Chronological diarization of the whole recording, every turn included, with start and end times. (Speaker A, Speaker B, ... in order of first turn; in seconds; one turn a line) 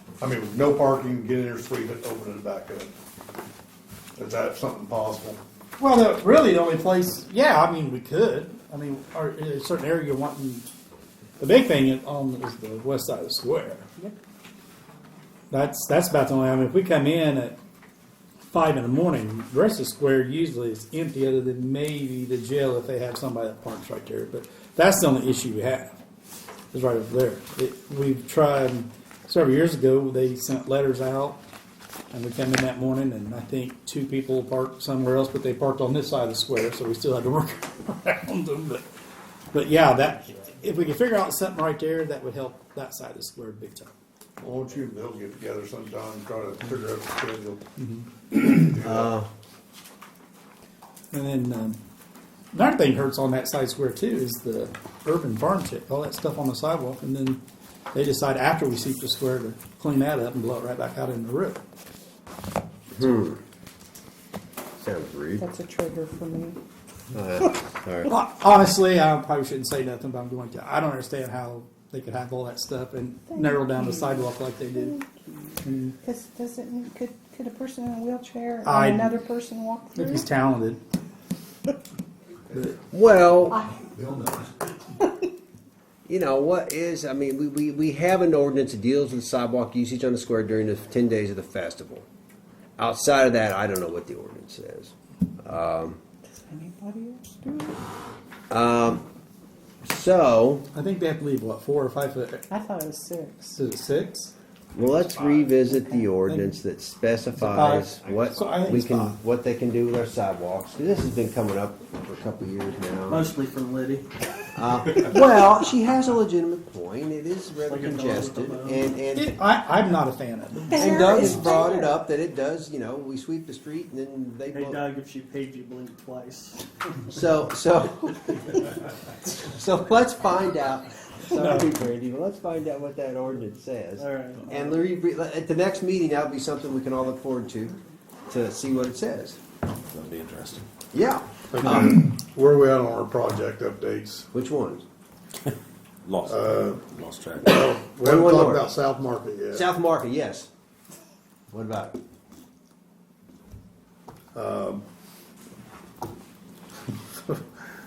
Speaker A: 0.2-2.9
Speaker A: 4.2-5.4
Speaker B: 5.8-10.7
Speaker B: 11.4-13.9
Speaker B: 15.5-17.6
Speaker B: 18.5-26.0
Speaker B: 26.7-31.4
Speaker B: 32.1-38.8
Speaker B: 39.5-43.9
Speaker A: 44.4-47.6
Speaker B: 47.8-48.1
Speaker A: 48.4-49.1
Speaker C: 48.8-49.3
Speaker B: 51.1-51.8
Speaker B: 52.5-57.4
Speaker B: 57.9-61.6
Speaker C: 62.9-63.4
Speaker C: 64.8-65.5
Speaker D: 65.4-66.6
Speaker C: 67.1-68.1
Speaker B: 68.0-75.0
Speaker D: 73.3-80.2
Speaker B: 75.6-76.0
Speaker B: 78.6-79.2
Speaker B: 79.9-80.8
Speaker C: 82.9-83.7
Speaker C: 86.1-92.0
Speaker C: 92.8-96.0
Speaker D: 96.3-97.8
Speaker C: 98.5-99.0
Speaker C: 99.8-100.6
Speaker B: 100.7-102.5
Speaker D: 102.5-103.5
Speaker B: 103.5-104.3
Speaker C: 104.7-113.3
Speaker B: 106.3-106.6
Speaker B: 107.3-109.2
Speaker E: 113.1-114.1
Speaker C: 114.5-119.3
Speaker E: 117.6-118.9
Speaker B: 119.1-121.4
Speaker D: 120.7-121.9
Speaker C: 120.7-124.9
Speaker E: 124.5-126.6
Speaker C: 127.1-128.7
Speaker C: 129.3-137.7
Speaker E: 134.0-134.5
Speaker C: 138.3-139.4
Speaker F: 139.9-140.6
Speaker C: 140.9-142.0
Speaker A: 141.5-144.3
Speaker C: 144.3-144.8
Speaker F: 146.0-147.6
Speaker A: 146.2-146.8
Speaker A: 147.4-149.7
Speaker C: 148.0-148.7
Speaker C: 149.5-150.5
Speaker C: 151.5-151.9
Speaker A: 154.3-154.8